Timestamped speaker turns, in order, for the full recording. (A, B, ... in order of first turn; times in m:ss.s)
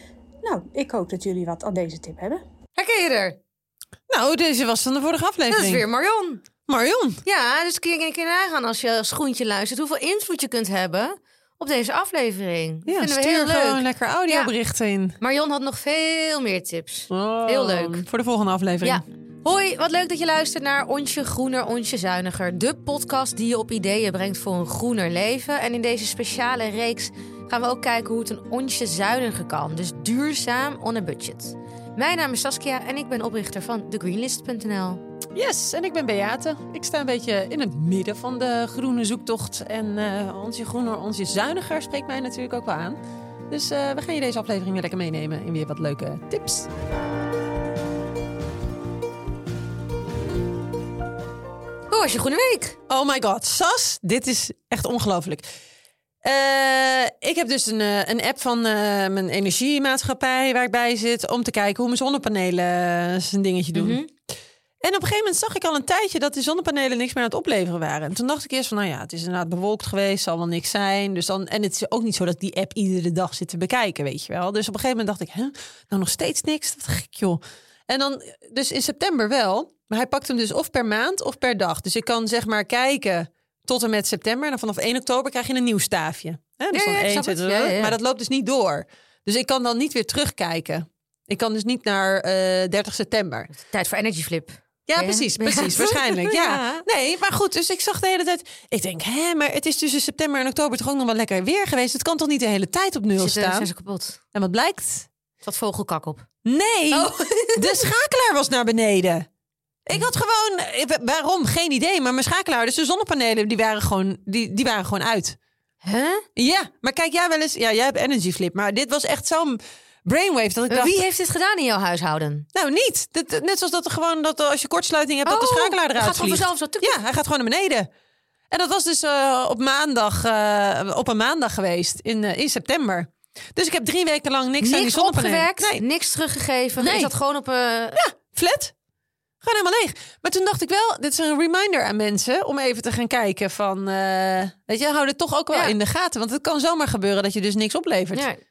0:00.4-0:02.4 A
0:02.8-0:03.4 B
0:04.1-0:05.8 C
0:05.5-0:06.4 B
0:06.7-0:07.2 C
0:07.2-0:14.5 B
0:12.9-0:15.2 C
0:15.2-0:18.0 B
0:17.1-0:19.0 C
0:18.8-0:35.0 B
0:35.3-0:46.7 C
0:51.9-0:52.8 B
0:52.9-0:55.5 C
0:56.2-1:04.0 C
1:03.8-1:04.1 B
1:04.8-1:33.5 C
1:26.7-1:28.0 B
1:33.6-1:36.8 B
1:34.9-1:43.7 C
1:43.2-1:44.2 B
1:44.3-1:45.1 C
1:45.4-1:46.3 B
1:46.4-1:49.3 C
1:46.9-1:47.9 B
1:49.9-1:55.4 C
1:55.8-1:56.3 B
1:56.4-2:00.9 C
2:00.7-2:02.5 B
2:02.5-2:07.9 C
2:05.2-2:07.0 B
2:08.5-2:15.8 C
2:14.6-2:18.0 B
2:16.8-2:17.1 C
2:18.0-2:18.7 C
2:19.4-2:28.3 C
2:28.1-2:28.4 B